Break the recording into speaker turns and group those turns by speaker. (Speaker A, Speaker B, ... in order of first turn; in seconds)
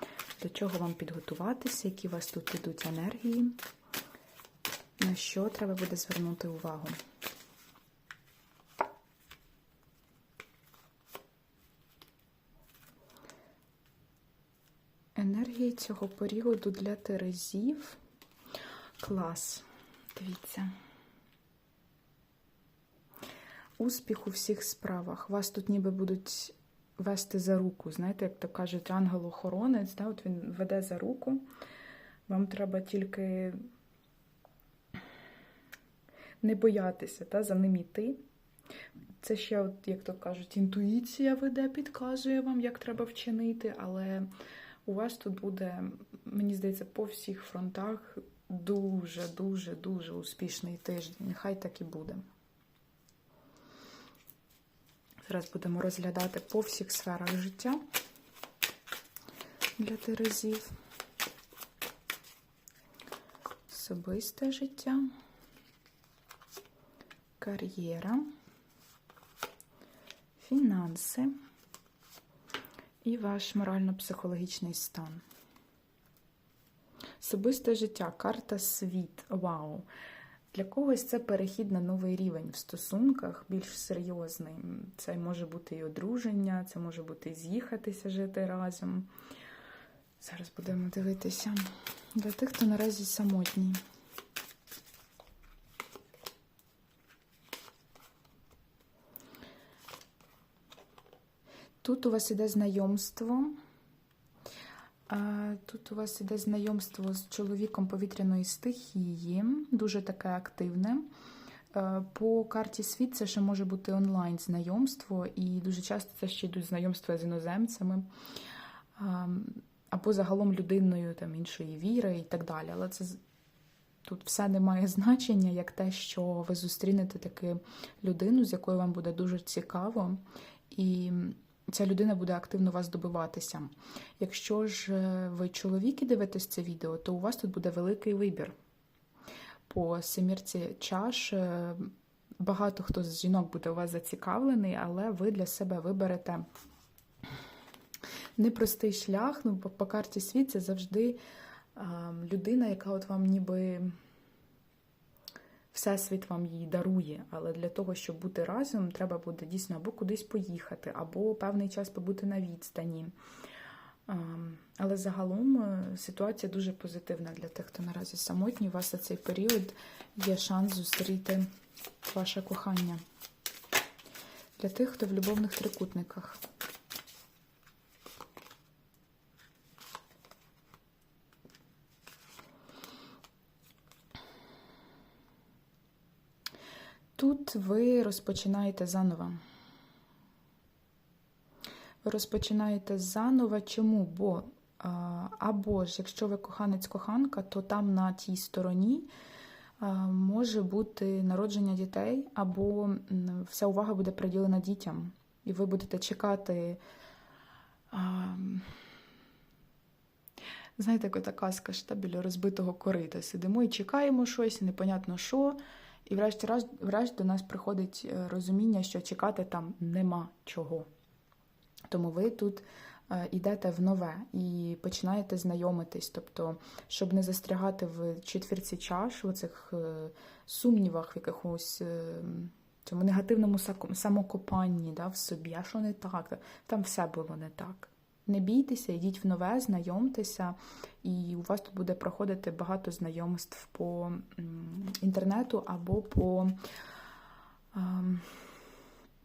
Speaker A: 0.4-3.5, 5.0-7.0, 15.2-18.0, 19.0-20.7, 23.8-31.4, 32.3-33.6, 36.4-38.2, 39.2-44.3, 44.9-52.2, 55.2-57.8, 59.8-60.7, 63.7-65.1, 67.4-68.2, 70.4-71.3, 73.0-75.2, 77.2-79.8, 80.5-89.1, 90.2-93.8, 101.8-103.5, 105.1-111.0, 111.7-118.0, 119.0-123.2, 124.0-138.5, 139.7-146.4, 148.4-151.2, 151.7-153.9, 155.7-163.1, 164.1-171.5, 172.1-173.0, 174.6-176.4, 187.2-189.4, 192.0-199.1, 199.8-206.8, 207.9-208.7, 210.8-220.9, 221.9-246.6, 247.7-248.6